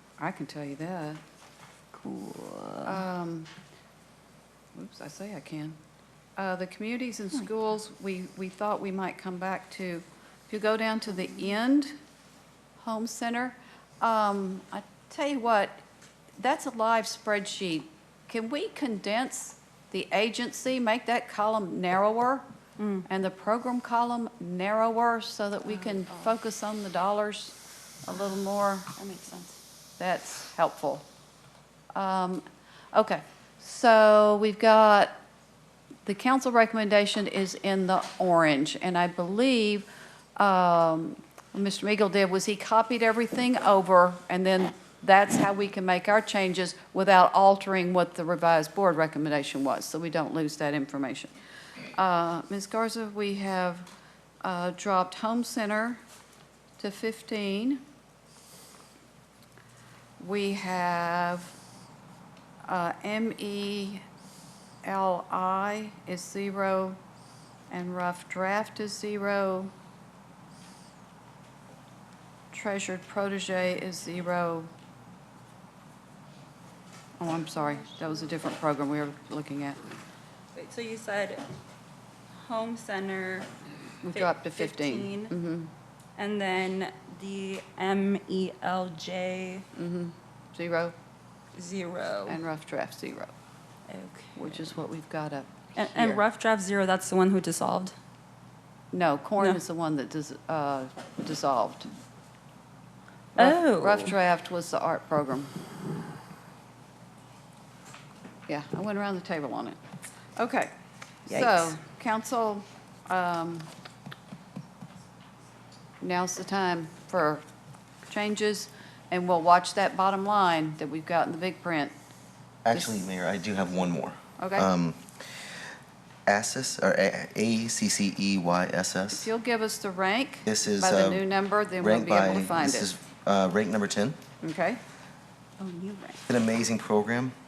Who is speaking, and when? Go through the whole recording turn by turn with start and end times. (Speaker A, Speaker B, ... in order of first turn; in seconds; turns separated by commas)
Speaker A: 0.2-1.2, Speaker B: 1.9-3.0, Speaker A: 2.8-3.5, Speaker A: 4.7-5.8, Speaker A: 6.4-11.9, Speaker A: 12.8-15.8, Speaker A: 16.4-22.4, Speaker B: 22.8-23.1, Speaker A: 23.1-28.9, Speaker B: 25.7-26.3, Speaker B: 28.9-29.6, Speaker A: 30.0-31.0, Speaker A: 31.9-35.1, Speaker A: 36.0-51.3, Speaker A: 52.0-53.9, Speaker A: 54.4-56.0, Speaker A: 56.8-57.8, Speaker A: 60.2-61.5, Speaker A: 62.6-64.0, Speaker A: 64.8-67.0, Speaker A: 67.7-69.7, Speaker A: 72.5-74.7, Speaker A: 77.2-79.9, Speaker B: 80.5-81.4, Speaker B: 82.4-83.5, Speaker A: 84.0-85.7, Speaker B: 84.1-85.3, Speaker B: 86.2-89.6, Speaker A: 89.7-90.9, Speaker B: 91.5-92.4, Speaker A: 92.3-93.3, Speaker B: 93.9-94.7, Speaker A: 94.3-96.2, Speaker B: 95.8-97.9, Speaker A: 98.9-101.9, Speaker A: 103.3-105.5, Speaker B: 103.4-104.1, Speaker A: 108.5-109.8, Speaker A: 110.4-110.7, Speaker B: 111.3-111.7, Speaker A: 111.3-113.7, Speaker A: 116.0-117.4, Speaker A: 118.1-121.9, Speaker C: 122.6-125.0, Speaker A: 124.4-124.7, Speaker C: 126.2-129.3, Speaker A: 129.2-132.9, Speaker C: 130.4-131.2, Speaker C: 131.8-134.2, Speaker A: 134.4-134.8, Speaker B: 135.6-136.2, Speaker C: 136.3-137.3